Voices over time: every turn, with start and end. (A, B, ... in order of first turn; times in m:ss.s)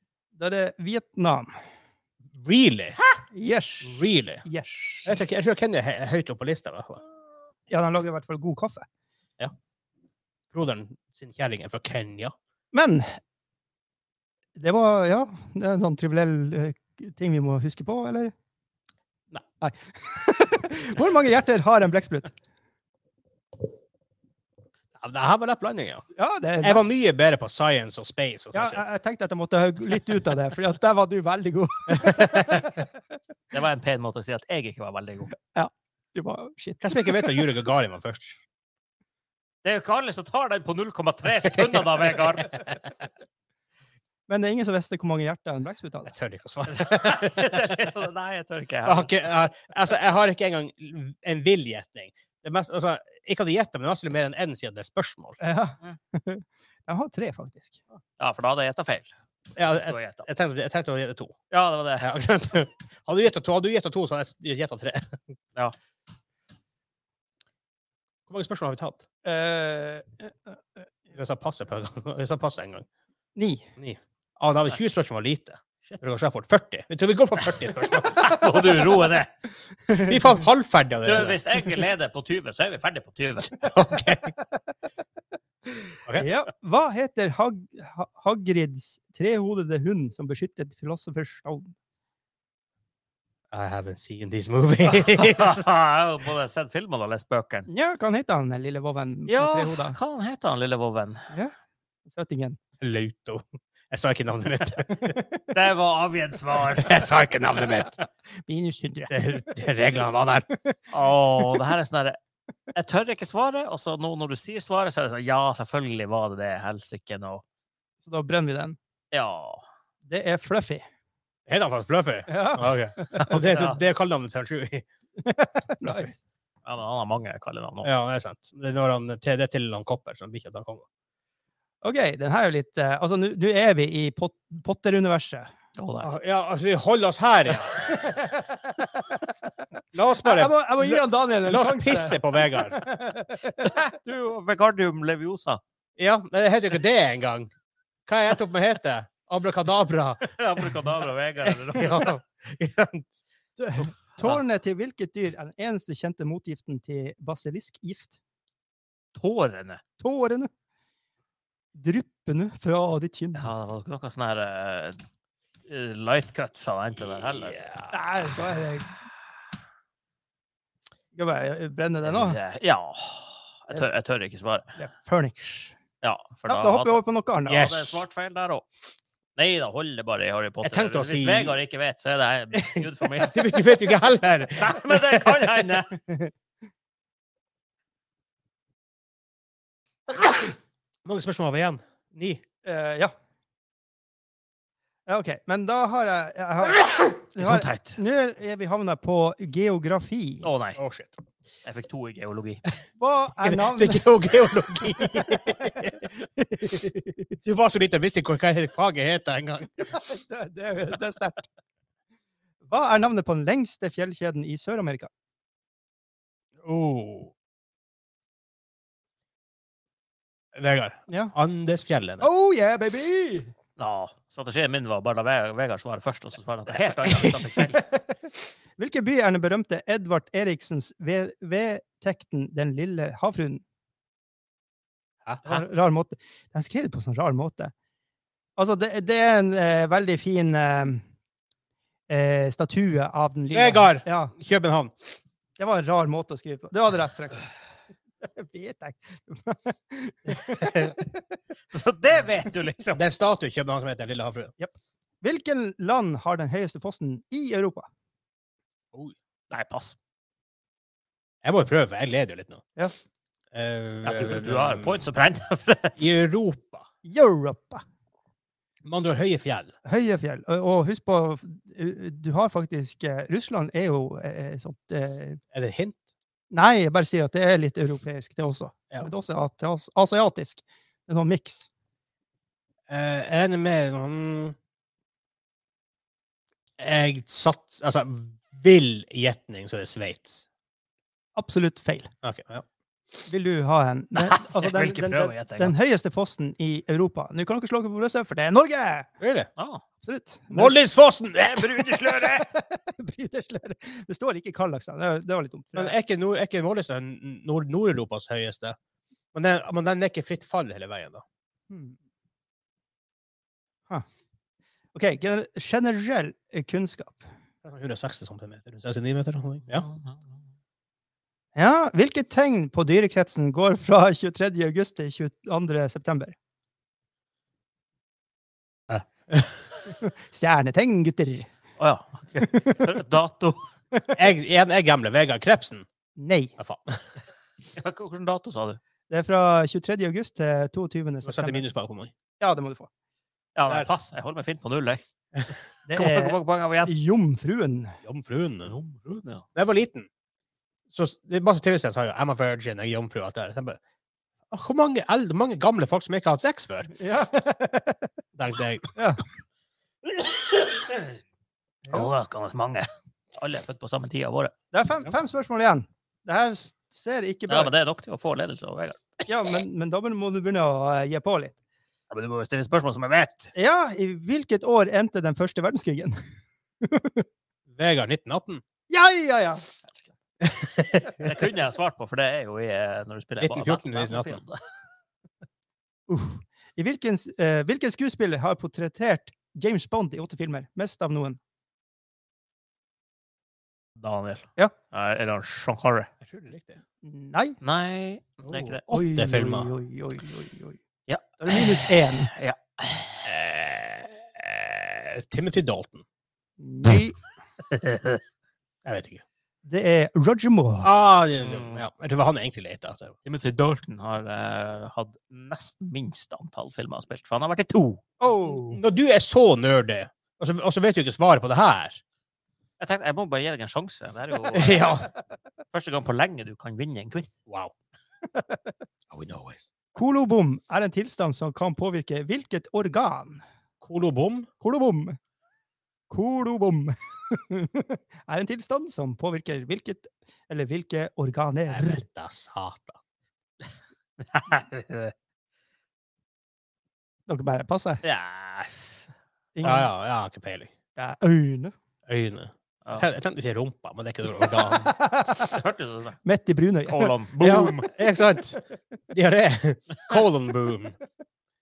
0:00.4-0:01.5 A
0:02.4-0:03.0 B
0:03.3-0:05.2 A
0:03.8-0:04.4 B
0:05.0-0:07.0 B
0:07.7-0:08.8 A
0:10.5-0:12.3 B
0:12.7-0:13.0 A
0:14.6-0:18.3 A
0:19.6-0:22.3 A
0:24.9-0:26.0 B
0:26.2-0:26.8 A
0:26.6-0:28.8 B
0:28.5-0:32.9 A
0:32.0-0:32.6 B
0:33.5-0:35.3 C
0:35.5-0:37.4 A
0:36.8-0:38.4 B
0:39.6-0:42.6 C
0:44.3-0:46.1 A
0:46.1-0:47.4 B
0:46.7-0:49.1 C
0:48.8-0:55.4 B
0:55.4-0:57.8 A
0:58.2-0:59.1 C
0:59.6-1:01.3 B
0:59.7-1:00.3 C
1:01.5-1:02.1 C
1:02.0-1:05.2 B
1:08.3-1:09.0 B
1:09.2-1:10.8 A
1:11.1-1:12.9 B
1:13.3-1:13.7 A
1:13.8-1:18.2 B
1:17.5-1:19.3 C
1:18.5-1:19.1 A
1:19.9-1:20.4 A
1:20.0-1:21.4 B
1:21.0-1:23.7 C
1:23.6-1:24.3 B
1:25.7-1:31.7 A
1:33.5-1:35.6 B
1:35.0-1:37.7 C
1:37.7-1:40.0 A
1:39.3-1:41.3 C
1:42.1-1:42.6 A
1:42.8-1:45.2 B
1:45.5-1:47.1 C
1:46.6-1:48.0 B
1:48.4-1:49.1 A
1:49.1-1:50.4 B
1:50.9-1:52.2 C
1:52.7-1:57.4 C
1:58.0-1:58.8 A
1:59.1-1:59.6 C
2:00.0-2:00.8 A
2:01.5-2:04.8 B
2:02.3-2:03.4 A
2:03.3-2:03.8 C
2:05.2-2:06.2 A
2:05.8-2:06.1 B
2:06.6-2:07.9 C
2:07.8-2:10.8 B
2:11.8-2:15.5 A
2:15.8-2:16.1 C
2:16.0-2:17.9 B
2:17.7-2:19.1 A
2:19.9-2:22.8 B
2:20.2-2:23.8 A
2:23.6-2:25.6 C
2:26.0-2:27.5 B
2:28.0-2:30.3 B
2:30.2-2:32.2 C
2:31.4-2:33.2 B
2:33.6-2:38.1 A
2:34.2-2:34.4 C
2:39.2-2:39.8 C
2:40.0-2:40.5 A
2:41.7-2:43.5 A
2:43.3-2:45.0 C
2:45.7-2:47.7 C
2:47.2-2:47.8 B
2:47.9-2:48.9 A
2:51.2-2:52.4 A
2:52.0-2:54.8 C
2:54.8-2:55.8 A
2:56.0-2:58.6 C
2:56.5-2:57.6 A
2:57.4-2:58.0 B
2:59.4-3:03.8 C
3:00.6-3:01.6 B
3:02.6-3:05.4 B
3:04.6-3:05.9 C
3:10.2-3:10.5 B
3:11.0-3:12.4 B
3:12.6-3:13.1 A
3:15.1-3:20.5 A
3:17.4-3:18.0 C
3:20.4-3:20.8 C
3:20.8-3:21.2 B
3:21.6-3:22.6 C
3:23.0-3:25.8 A
3:23.4-3:26.1 B
3:26.4-3:27.3 A
3:27.4-3:29.9 B
3:29.8-3:31.5 A
3:32.6-3:35.1 A
3:36.6-3:37.3 B
3:40.6-3:42.3 B
3:41.1-3:41.3 A
3:42.2-3:43.5 A
3:43.8-3:47.8 C
3:47.1-3:47.3 B
3:47.9-3:53.6 A
3:55.4-3:57.7 A
3:58.6-4:01.0 A
4:02.1-4:04.3 A
4:03.5-4:05.2 B
4:05.6-4:07.5 A
4:08.2-4:11.2 A
4:10.4-4:10.9 B
4:11.7-4:13.0 C
4:12.9-4:14.5 B
4:14.6-4:17.9 A
4:19.5-4:20.0 C
4:21.4-4:22.6 B
4:23.5-4:25.0 B
4:24.0-4:26.1 C
4:26.0-4:26.8 B
4:27.0-4:27.8 A
4:28.8-4:29.7 B
4:29.8-4:35.4 A
4:35.5-4:36.0 B
4:36.5-4:41.7 A
4:42.9-4:44.6 B
4:46.8-4:50.4 B
4:51.4-4:52.1 A
4:52.2-4:52.6 B
4:53.3-4:59.1 A
4:54.2-4:55.8 C
4:59.2-4:59.5 B
4:59.6-4:59.8 C
5:00.0-5:00.8 A
5:00.5-5:02.0 B
5:01.4-5:02.5 C
5:02.0-5:06.0 A
5:05.8-5:08.8 B
5:09.3-5:11.2 B
5:11.7-5:12.0 A
5:14.9-5:17.2 A
5:17.6-5:19.9 B
5:19.7-5:20.2 C
5:21.6-5:26.4 A
5:28.9-5:29.5 B
5:29.9-5:31.5 A
5:31.8-5:33.7 C
5:32.4-5:32.8 A
5:34.1-5:35.8 B
5:36.2-5:36.6 A
5:36.6-5:37.0 B
5:37.7-5:38.8 C
5:39.1-5:41.7 A
5:41.2-5:42.1 B
5:42.4-5:42.9 A
5:43.6-5:46.9 C
5:45.9-5:48.0 A
5:48.0-5:48.8 B
5:48.8-5:49.4 C
5:49.5-5:50.1 B
5:50.9-5:53.8 B
5:54.5-5:56.9 B
5:57.0-5:58.1 A
5:58.4-5:58.9 B
6:00.1-6:01.2 C
6:01.9-6:04.5 C
6:04.7-6:07.7 A
6:07.5-6:09.3 C
6:09.3-6:11.6 A
6:12.1-6:13.5 C
6:13.5-6:16.2 A
6:16.8-6:17.2 A
6:17.7-6:18.6 B
6:18.9-6:19.6 A
6:20.4-6:21.3 B
6:21.2-6:24.6 C
6:23.4-6:24.4 B
6:26.1-6:31.4 A
6:34.0-6:36.1 C
6:36.2-6:36.8 B
6:37.0-6:37.6 A
6:37.6-6:38.8 C
6:38.4-6:39.7 B
6:38.9-6:40.8 A
6:41.1-6:43.3 C
6:41.4-6:42.3 A
6:43.3-6:46.0 B
6:46.6-6:47.2 A
6:47.7-6:48.2 C
6:48.8-6:49.2 B
6:49.6-6:50.9 A
6:50.8-6:53.2 B
6:51.4-6:51.9 C
6:53.2-6:58.0 C
6:58.2-6:58.8 A
6:58.7-7:02.0 B
7:02.8-7:05.1 C
7:04.5-7:05.1 B
7:05.7-7:07.3 C
7:07.5-7:07.7 B
7:08.3-7:08.6 A
7:09.1-7:09.7 B
7:09.9-7:13.4 A
7:13.8-7:14.5 B
7:14.6-7:15.2 A
7:16.1-7:22.0 A
7:21.7-7:23.0 B
7:24.2-7:25.1 C
7:27.3-7:28.0 A
7:28.0-7:28.9 C
7:29.5-7:29.9 A
7:29.6-7:30.7 B
7:31.0-7:31.7 A
7:32.1-7:35.0 B
7:34.4-7:35.6 A
7:35.4-7:36.2 C
7:36.2-7:37.7 A
7:36.9-7:37.9 C
7:37.4-7:41.0 B